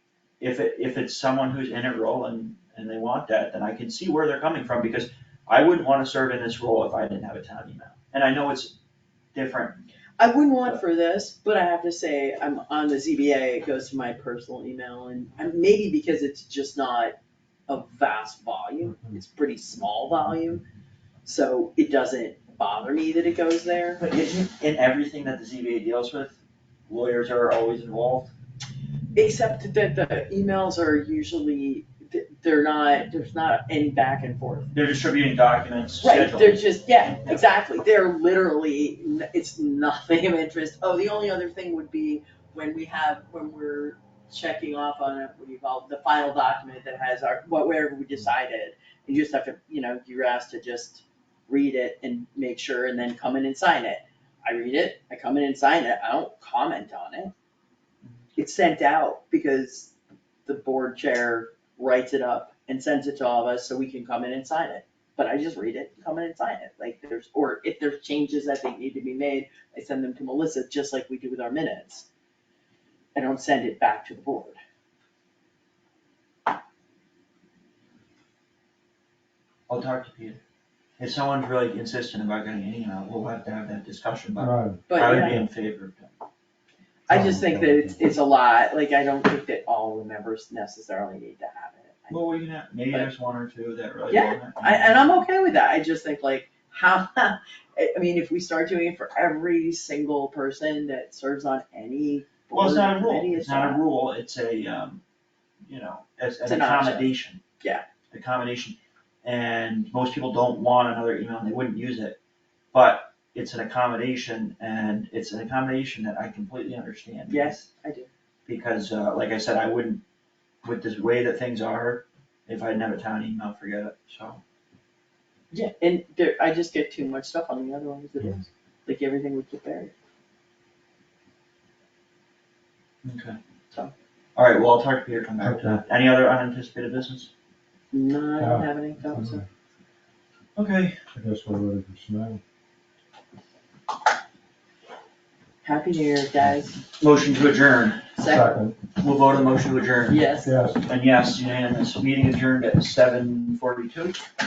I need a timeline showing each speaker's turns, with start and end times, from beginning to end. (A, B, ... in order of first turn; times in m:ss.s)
0:00.4-0:08.8 A
0:09.3-0:09.8 A
0:10.2-0:17.2 B
0:17.7-0:20.6 B
0:21.2-0:24.0 B
0:24.0-0:28.3 A
0:29.2-0:34.7 B
0:34.7-0:36.6 A
0:36.0-0:57.3 B
0:58.4-0:59.9 B
1:00.5-1:12.1 B
1:13.2-1:14.6 B
1:19.7-1:20.4 A
1:21.0-1:26.2 A
1:24.4-1:24.8 C
1:24.9-1:25.4 B
1:27.1-1:32.2 B
1:27.1-1:28.0 C
1:32.1-1:35.2 A
1:34.1-1:43.8 B
1:42.5-1:45.0 A
1:45.7-1:47.4 A
1:46.5-1:47.1 B
1:48.1-1:52.2 A
1:52.7-1:57.7 A
1:57.3-1:58.1 B
1:58.5-2:00.0 A
2:00.6-2:04.4 A
2:05.5-2:09.9 B
2:13.0-2:13.4 A
2:14.4-2:17.3 A
2:15.4-2:15.8 C
2:17.9-2:19.4 B
2:18.4-2:19.4 C
2:20.6-2:21.0 A
2:21.1-2:22.4 C
2:25.6-2:26.8 B
2:27.0-2:28.1 A
2:28.2-2:28.6 B
2:28.3-2:28.8 C
2:29.0-2:30.2 A
2:30.1-2:30.6 B
2:30.4-2:30.8 C
2:30.8-2:34.2 A